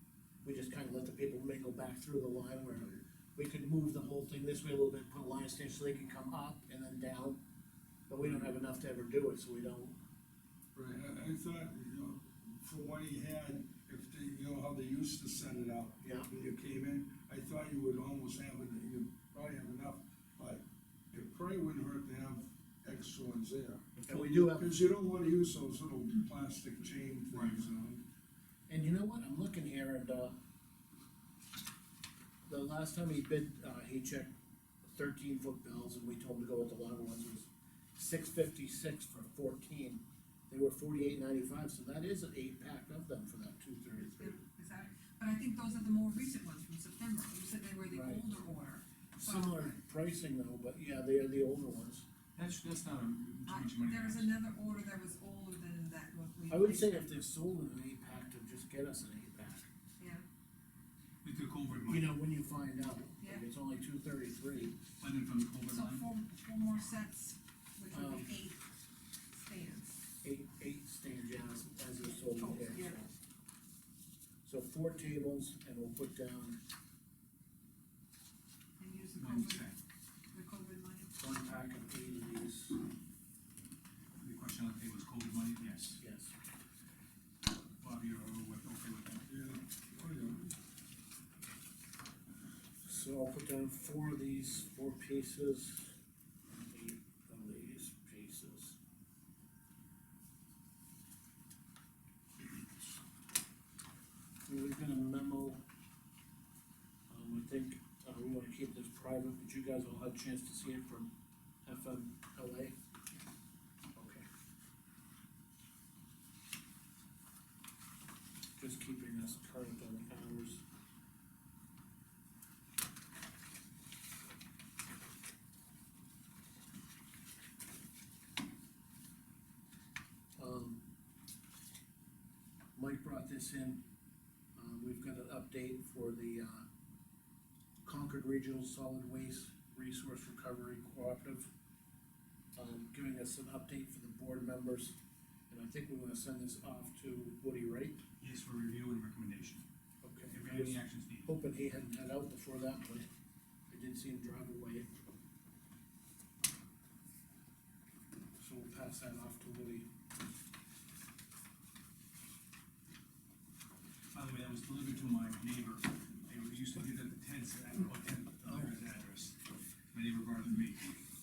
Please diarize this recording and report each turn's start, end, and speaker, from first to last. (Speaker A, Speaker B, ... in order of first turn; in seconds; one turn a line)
Speaker A: 0.4-7.4
Speaker A: 8.1-10.0
Speaker B: 10.7-28.0
Speaker A: 16.0-16.3
Speaker A: 24.1-24.7
Speaker C: 27.3-27.7
Speaker A: 28.7-30.4
Speaker A: 32.5-34.3
Speaker A: 34.9-44.4
Speaker D: 44.0-49.7
Speaker A: 47.9-48.2
Speaker A: 49.1-52.0
Speaker C: 52.4-54.3
Speaker D: 53.5-57.1
Speaker A: 56.5-59.7
Speaker D: 60.0-60.2
Speaker C: 61.2-62.1
Speaker A: 61.9-64.8
Speaker C: 65.0-66.0
Speaker D: 65.7-68.7
Speaker A: 67.9-68.3
Speaker D: 69.3-70.0
Speaker A: 70.2-73.0
Speaker D: 72.4-73.0
Speaker A: 74.4-76.6
Speaker D: 78.8-79.7
Speaker C: 79.2-79.8
Speaker D: 80.3-81.2
Speaker A: 81.2-82.8
Speaker C: 84.2-86.0
Speaker A: 86.0-86.3
Speaker C: 87.8-89.2
Speaker B: 89.3-90.5
Speaker A: 92.8-96.0
Speaker A: 96.7-98.8
Speaker A: 104.5-105.6
Speaker A: 107.1-111.1
Speaker A: 111.7-112.7
Speaker A: 114.0-114.2
Speaker A: 118.6-120.6
Speaker A: 130.4-130.8
Speaker A: 132.8-133.8
Speaker A: 134.6-136.7
Speaker A: 137.8-141.5
Speaker A: 142.6-144.9
Speaker A: 145.5-148.0
Speaker C: 148.2-149.6
Speaker A: 150.0-153.1
Speaker C: 150.3-151.3
Speaker A: 153.7-154.9
Speaker A: 158.4-159.9
Speaker C: 164.1-169.4
Speaker A: 168.4-168.8
Speaker C: 169.9-170.9